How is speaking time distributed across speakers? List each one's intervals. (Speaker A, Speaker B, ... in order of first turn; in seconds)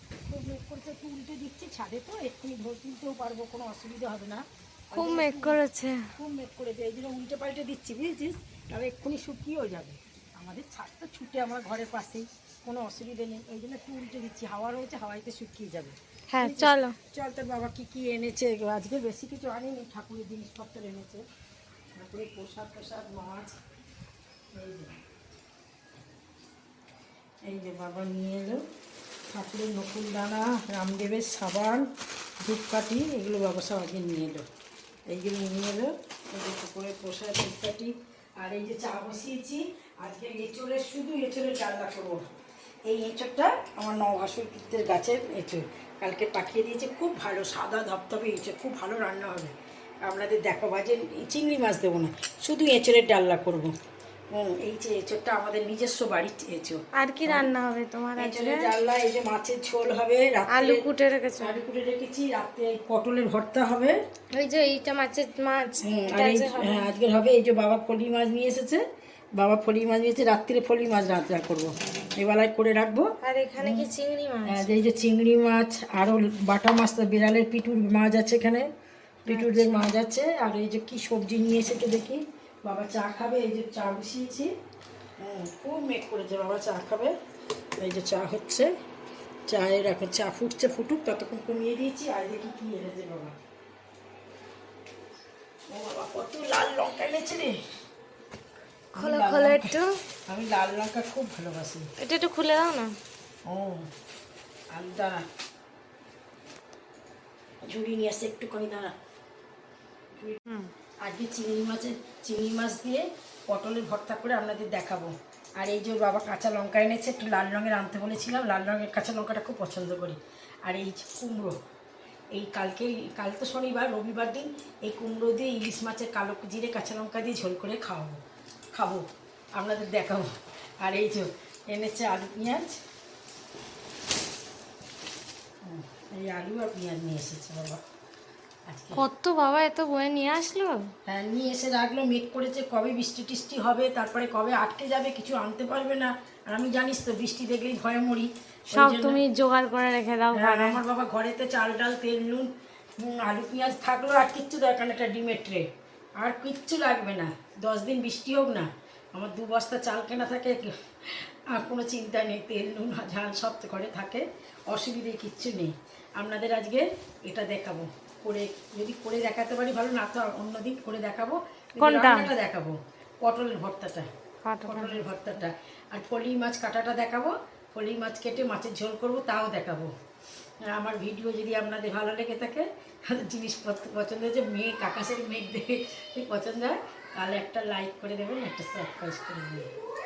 Speaker A: 0.3-5.6, 6.1-21.2, 21.9-23.6, 24.5-25.0, 27.4-28.6, 29.3-31.9, 32.4-34.5, 35.1-42.2, 42.9-53.7, 54.3-57.5, 58.2-60.9, 61.4-64.0, 65.8-68.8, 69.3-73.9, 74.5-78.7, 79.3-84.5, 85.2-87.1, 87.8-88.7, 89.5-93.3, 95.7-97.6, 99.0-99.8, 100.3-101.9, 103.5-103.9, 104.7-105.2, 107.7-108.9, 110.2-110.4, 111.0-121.6, 122.3-128.2, 128.7-129.0, 129.6-130.3, 130.8-132.7, 135.6-137.8, 138.7-139.1, 141.1-149.2, 150.3-155.7, 156.2-174.1, 174.6-179.9, 180.7-189.7
Speaker B: 4.9-6.1, 16.3-17.0, 57.0-58.7, 60.5-61.6, 64.3-66.9, 73.2-74.7, 79.3-79.9, 99.0-100.0, 102.0-102.9, 138.9-140.9, 148.7-150.8, 171.8-172.3, 174.4-175.0